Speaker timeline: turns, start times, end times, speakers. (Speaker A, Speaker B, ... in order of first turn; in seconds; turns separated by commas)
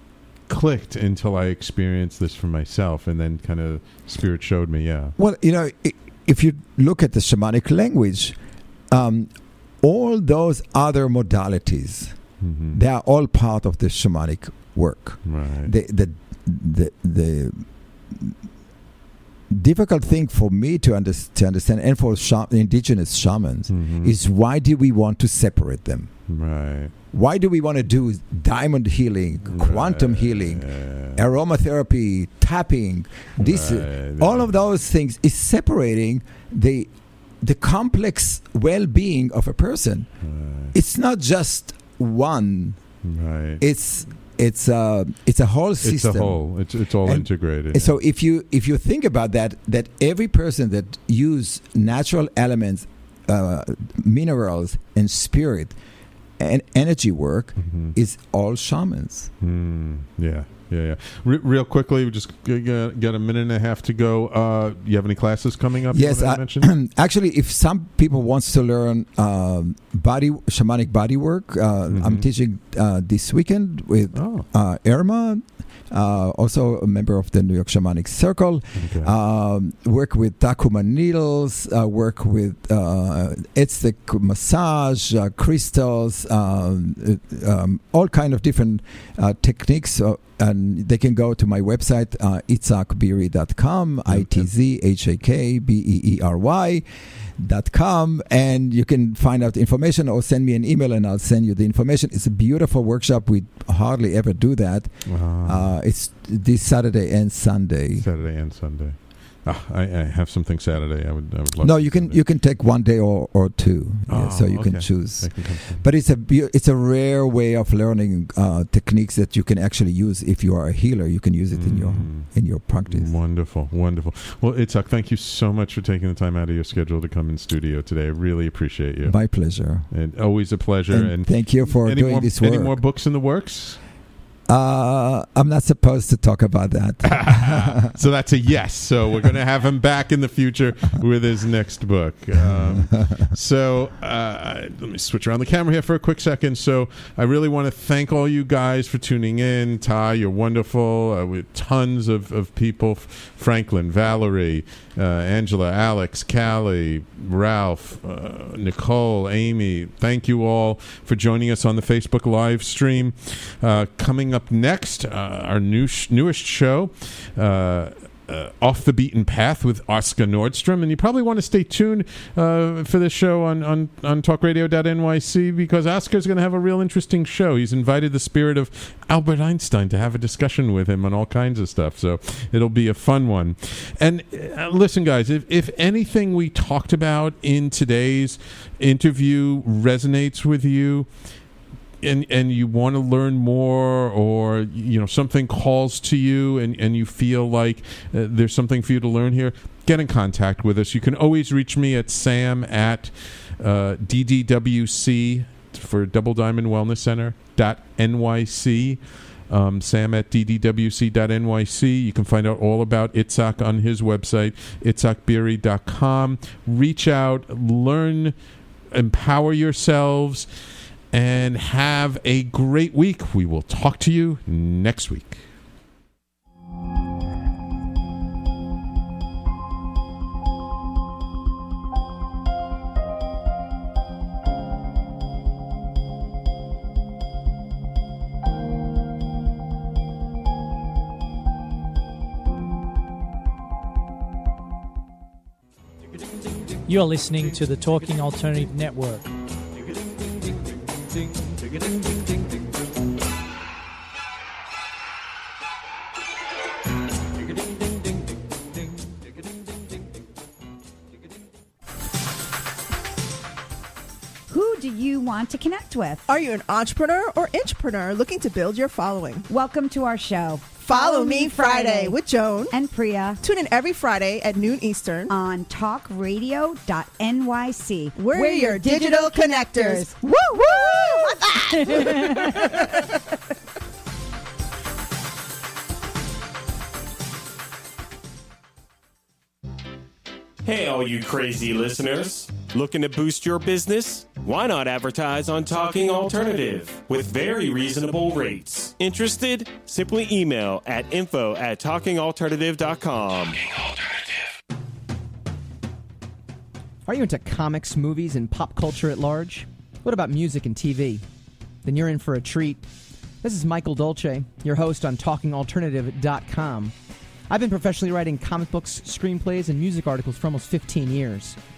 Speaker A: 0.5-5.2, Speaker B: 5.2-8.4, Speaker B: 8.9-9.3, Speaker B: 9.8-12.2, Speaker A: 12.4-12.8, Speaker B: 12.7-18.4, Speaker A: 15.3-15.7, Speaker B: 19.5-26.1, Speaker A: 23.7-24.1, Speaker A: 26.3-26.9, Speaker B: 27.1-36.9, Speaker A: 29.4-31.2, Speaker A: 33.4-34.5, Speaker B: 37.4-40.1, Speaker A: 40.2-40.7, Speaker B: 40.7-42.8, Speaker A: 43.0-43.6, Speaker B: 43.6-46.5, Speaker A: 45.8-48.0, Speaker B: 47.0-55.8, Speaker B: 56.4-59.3, Speaker A: 57.6-58.0, Speaker A: 59.4-66.7, Speaker B: 65.9-96.8, Speaker A: 71.9-72.3, Speaker A: 74.2-74.5, Speaker A: 78.8-79.1, Speaker A: 94.1-94.5, Speaker B: 97.4-108.1, Speaker A: 105.1-105.8, Speaker A: 108.0-112.2, Speaker B: 111.6-123.1, Speaker A: 114.1-115.8, Speaker A: 121.5-122.3, Speaker A: 122.9-129.2, Speaker B: 129.1-129.9, Speaker A: 129.9-133.8, Speaker B: 130.9-132.8, Speaker B: 134.5-137.9, Speaker A: 137.1-191.1, Speaker B: 142.4-143.3, Speaker A: 192.0-218.3, Speaker A: 218.9-220.5, Speaker A: 221.1-225.4, Speaker C: 246.9-249.3, Speaker D: 264.5-266.3, Speaker E: 266.3-269.5, Speaker D: 269.5-273.4, Speaker E: 270.8-272.8, Speaker E: 273.4-275.4, Speaker D: 275.3-280.1, Speaker E: 278.2-282.5, Speaker F: 290.6-303.7, Speaker G: 307.1-311.2, Speaker G: 311.8-312.8, Speaker G: 313.4-316.9, Speaker G: 317.5-321.6